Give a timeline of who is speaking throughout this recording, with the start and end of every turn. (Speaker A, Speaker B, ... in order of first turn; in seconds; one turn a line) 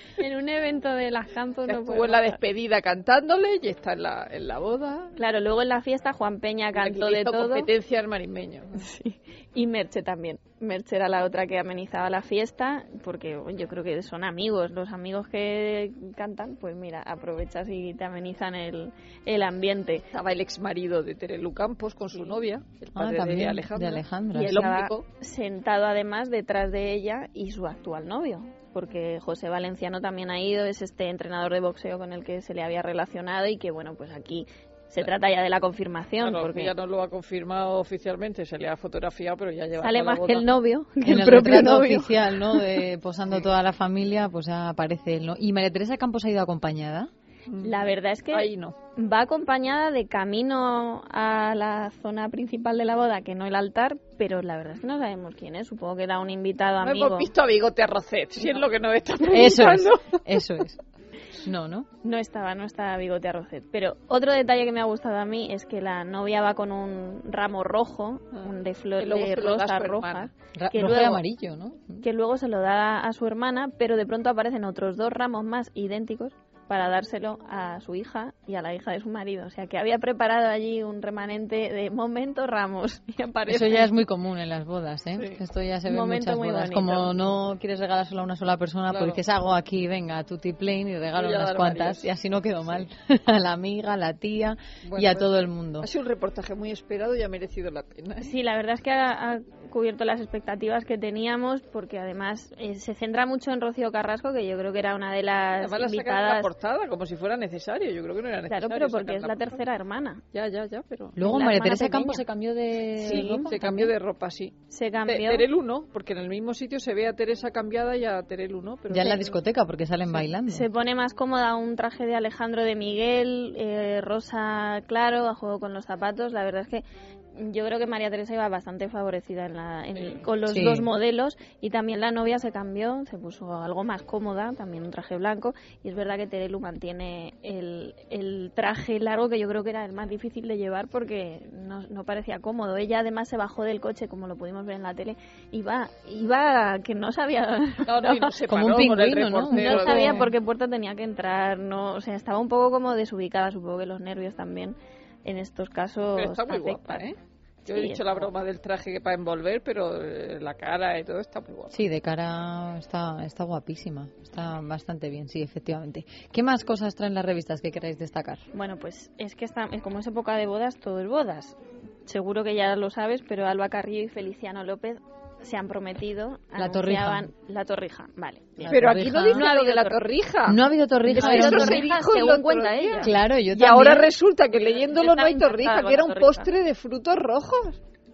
Speaker A: 0.2-2.4
Speaker B: 1.7-5.2
Speaker A: 5.2-7.7
Speaker B: 6.8-8.9
Speaker A: 8.8-20.1
Speaker B: 20.1-25.1
Speaker C: 22.9-24.6
Speaker A: 24.3-36.7
Speaker B: 36.2-40.6
Speaker A: 39.8-42.1
Speaker C: 41.0-47.1
Speaker B: 47.5-48.8
Speaker A: 47.6-57.3
Speaker B: 56.8-60.0
Speaker C: 59.3-60.8
Speaker C: 61.4-61.9
Speaker A: 62.0-71.2
Speaker B: 68.3-70.3
Speaker C: 70.5-72.0
Speaker A: 72.0-83.9
Speaker C: 83.5-95.9
Speaker A: 85.9-87.1
Speaker B: 88.9-89.2
Speaker B: 91.2-92.1
Speaker B: 94.8-98.3
Speaker A: 98.2-106.5
Speaker B: 105.6-109.6
Speaker A: 108.5-110.2
Speaker B: 110.3-111.2
Speaker C: 111.2-113.9
Speaker A: 111.2-112.2
Speaker B: 113.0-119.2
Speaker A: 113.1-113.5
Speaker A: 114.7-115.5
Speaker C: 118.9-120.7
Speaker A: 120.5-148.3
Speaker B: 129.9-130.3
Speaker C: 130.5-130.9
Speaker B: 147.9-150.2
Speaker C: 148.5-150.3
Speaker A: 149.5-157.1
Speaker B: 156.1-161.8
Speaker A: 157.7-158.3
Speaker C: 161.7-168.4
Speaker A: 168.5-180.0
Speaker C: 176.6-177.3
Speaker C: 178.6-179.5
Speaker B: 178.7-187.8
Speaker C: 180.5-181.8
Speaker A: 181.1-183.1
Speaker C: 183.0-184.1
Speaker A: 184.9-186.5